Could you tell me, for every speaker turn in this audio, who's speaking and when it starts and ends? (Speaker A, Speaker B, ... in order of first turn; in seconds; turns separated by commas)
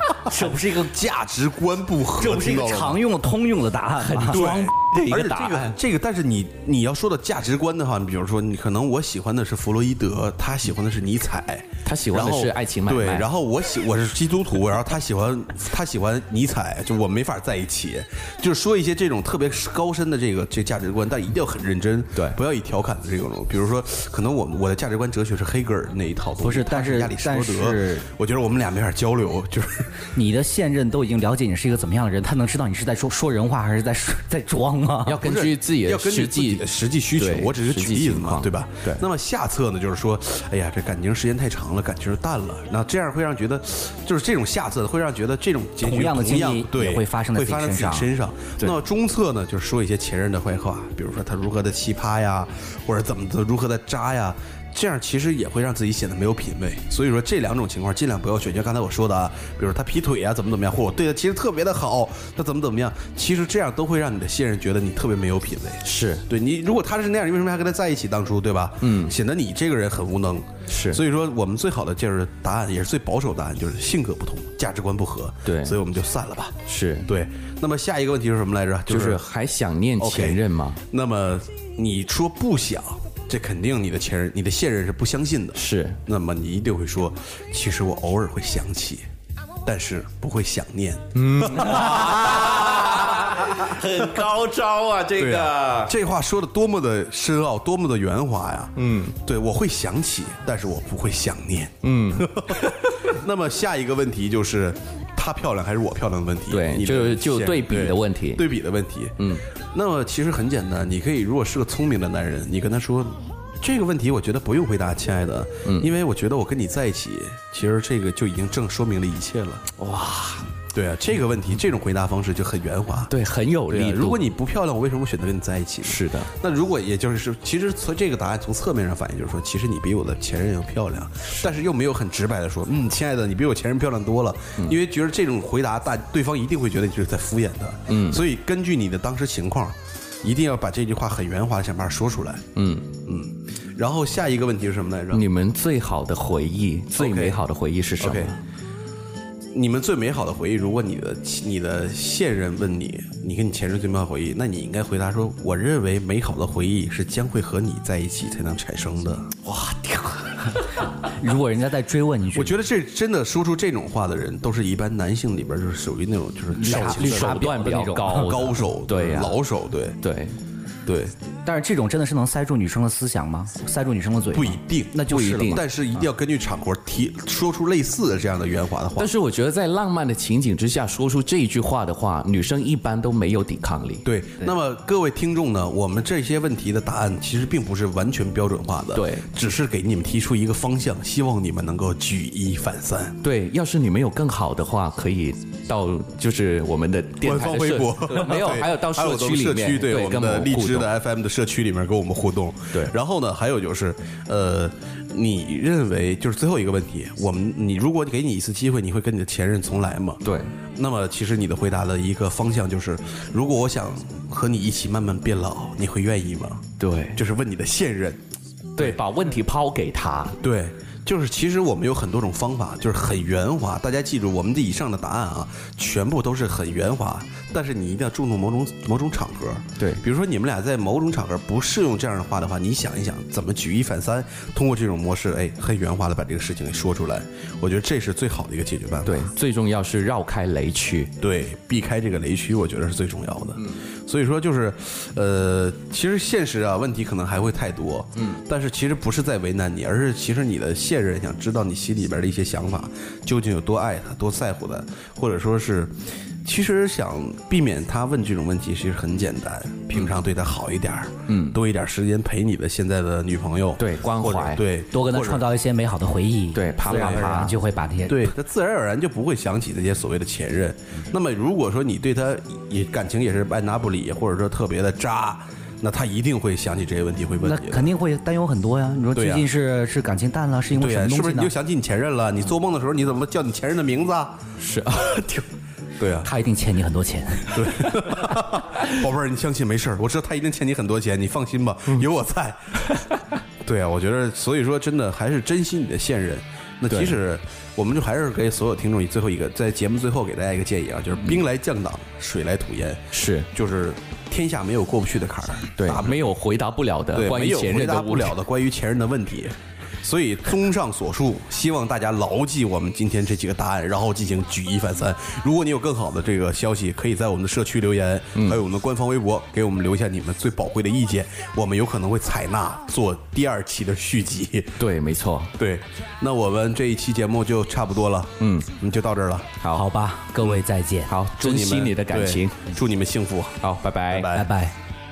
Speaker A: 0.2-1.0, Speaker B: 0.4-3.0, Speaker A: 2.2-4.4, Speaker C: 4.0-5.8, Speaker B: 4.3-30.1, Speaker C: 11.8-13.3, Speaker A: 26.4-28.1, Speaker A: 30.1-35.2, Speaker C: 35.0-39.0, Speaker B: 35.2-79.2, Speaker A: 45.8-48.7, Speaker C: 65.8-66.2, Speaker C: 68.8-69.1, Speaker C: 70.7-71.0, Speaker C: 75.5-75.8, Speaker C: 76.7-77.1, Speaker C: 78.9-80.8, Speaker B: 80.0-89.0, Speaker C: 85.5-86.0, Speaker B: 89.6-92.7, Speaker C: 91.1-95.9, Speaker B: 95.2-119.7, Speaker C: 98.8-99.2, Speaker C: 101.8-102.9, Speaker C: 106.5-108.5, Speaker C: 109.2-109.4, Speaker C: 119.8-120.5, Speaker B: 120.7-123.1, Speaker C: 123.1-124.3, Speaker B: 123.7-142.4, Speaker C: 125.8-126.3, Speaker C: 137.9-138.2, Speaker C: 142.6-142.9, Speaker B: 143.0-145.2, Speaker C: 145.1-148.4, Speaker B: 146.9-147.4, Speaker B: 148.0-148.3, Speaker B: 149.5-159.3, Speaker A: 159.5-162.6, Speaker B: 162.3-170.0, Speaker A: 166.5-168.4, Speaker C: 166.6-169.4, Speaker C: 170.0-170.3, Speaker B: 170.8-171.1, Speaker A: 171.4-176.0, Speaker B: 174.3-179.1, Speaker C: 175.1-175.6, Speaker C: 179.0-184.1, Speaker B: 184.0-193.2, Speaker C: 188.9-189.3, Speaker C: 193.2-200.9, Speaker B: 197.2-210.2, Speaker C: 210.2-210.5, Speaker B: 210.8-218.2, Speaker C: 216.8-217.2, Speaker C: 218.8-220.3, Speaker B: 220.4-239.3, Speaker C: 239.0-241.1, Speaker B: 241.2-265.4, Speaker C: 261.3-261.6, Speaker C: 263.8-264.6, Speaker A: 264.9-268.3, Speaker C: 266.5-267.5, Speaker B: 266.9-267.2, Speaker B: 268.1-277.9, Speaker A: 277.4-281.5, Speaker B: 279.1-279.5, Speaker B: 280.7-284.4, Speaker C: 284.6-285.4, Speaker B: 286.0-286.3, Speaker A: 286.2-287.8, Speaker B: 287.5-293.0, Speaker B: 293.6-306.3, Speaker C: 296.9-297.2, Speaker C: 303.1-303.5, Speaker C: 305.8-308.4, Speaker B: 307.1-324.8, Speaker C: 318.3-318.6, Speaker C: 324.8-325.5, Speaker B: 325.6-329.5, Speaker C: 328.4-328.7, Speaker A: 329.7-331.1, Speaker C: 331.1-332.6, Speaker B: 331.4-334.5, Speaker C: 333.6-334.3, Speaker A: 334.3-334.7